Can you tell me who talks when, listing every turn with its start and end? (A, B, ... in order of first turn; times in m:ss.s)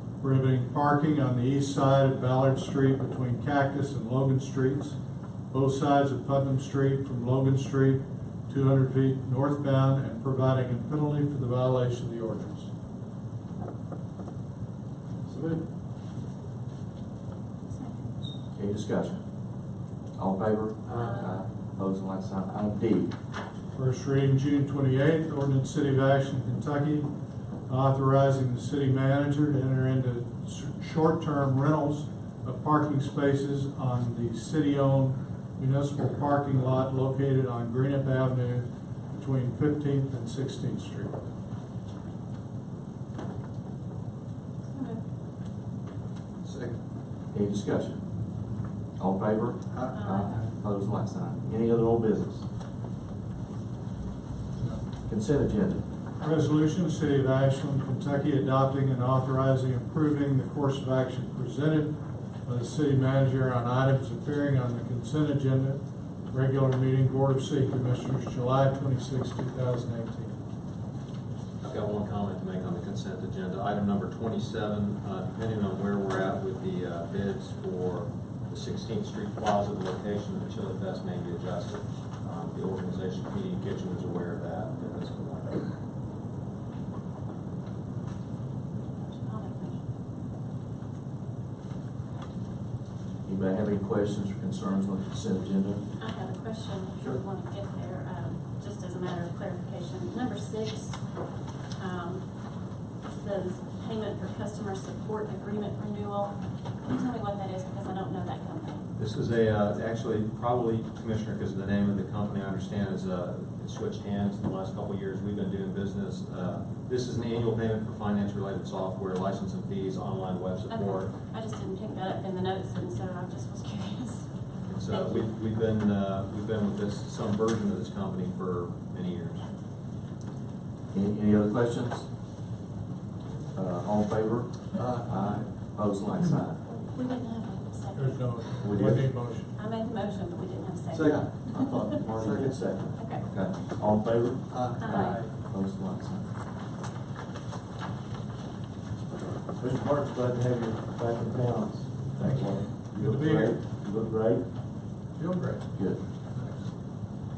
0:00.2-0:05.0 A
0:05.5-0:12.7 A
0:17.7-0:18.3 B
0:18.6-0:19.2 C
0:20.2-0:23.1 C
0:20.9-0:21.3 B
0:23.8-0:27.1 A
0:27.7-0:41.2 A
0:44.7-0:45.0 B
0:46.4-0:46.7 D
0:47.3-0:48.0 C
0:49.0-0:52.5 C
0:49.9-0:50.4 B
0:55.1-0:55.8 C
0:56.2-1:01.9 A
1:02.4-1:05.8 A
1:06.3-1:10.3 A
1:11.6-1:25.7 D
1:28.8-1:29.8 B
1:33.2-1:35.8 C
1:36.0-1:41.0 B
1:41.8-1:42.3 B
1:43.1-1:48.8 B
1:49.0-2:01.1 D
2:00.7-2:04.3 B
2:04.7-2:09.5 D
2:04.9-2:05.3 B
2:10.9-2:12.1 C
2:13.5-2:16.6 C
2:14.8-2:15.5 D
2:16.7-2:18.6 B
2:18.0-2:19.5 A
2:18.6-2:19.1 C
2:19.5-2:21.9 B
2:20.9-2:21.3 D
2:21.4-2:26.2 C
2:22.2-2:22.6 D
2:23.0-2:23.3 B
2:24.5-2:25.2 D
2:24.8-2:25.3 B
2:29.5-2:34.4 C
2:32.2-2:33.6 A
2:35.2-2:36.6 A
2:35.7-2:36.0 C